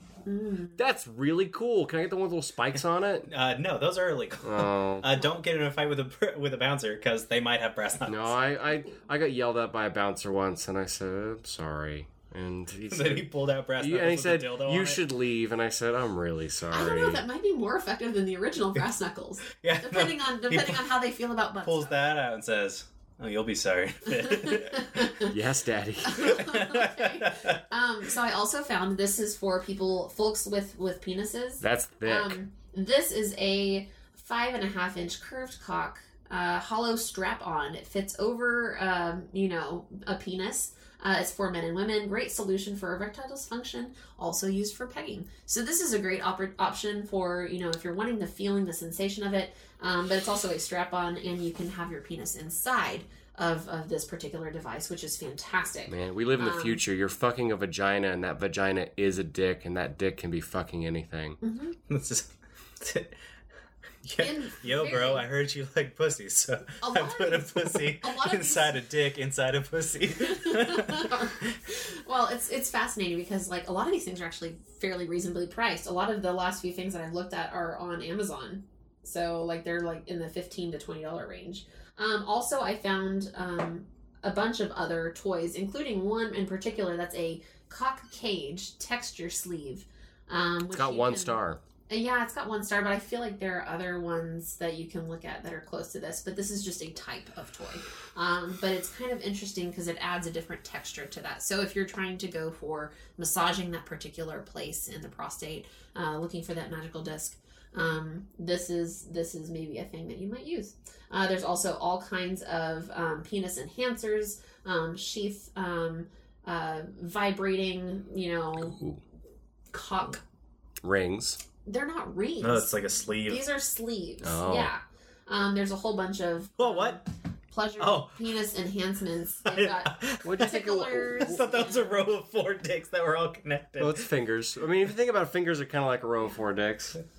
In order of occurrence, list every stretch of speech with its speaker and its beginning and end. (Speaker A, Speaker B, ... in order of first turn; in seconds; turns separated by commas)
Speaker A: 0.2-0.8, Speaker B: 0.8-3.3, Speaker C: 3.3-8.4, Speaker B: 4.4-5.1, Speaker B: 8.1-17.2, Speaker A: 8.7-9.0, Speaker C: 12.9-15.0, Speaker A: 16.7-21.9, Speaker C: 19.6-20.9, Speaker C: 21.6-25.1, Speaker A: 24.1-25.3, Speaker B: 25.2-26.5, Speaker A: 26.0-56.8, Speaker C: 26.2-27.6, Speaker B: 31.6-32.4, Speaker B: 55.9-61.4, Speaker A: 61.4-61.8, Speaker C: 61.9-62.3, Speaker C: 62.8-63.1, Speaker C: 64.0-71.3, Speaker A: 64.2-65.2, Speaker A: 66.8-68.8, Speaker A: 70.2-118.8, Speaker B: 90.7-91.6, Speaker B: 118.6-119.0, Speaker A: 119.7-120.2, Speaker B: 120.8-121.4, Speaker A: 121.6-132.0, Speaker C: 122.4-123.4, Speaker B: 124.2-124.7, Speaker C: 126.6-127.0, Speaker C: 127.8-128.2, Speaker C: 129.5-130.4, Speaker B: 130.2-131.4, Speaker C: 131.2-134.1, Speaker B: 133.8-137.0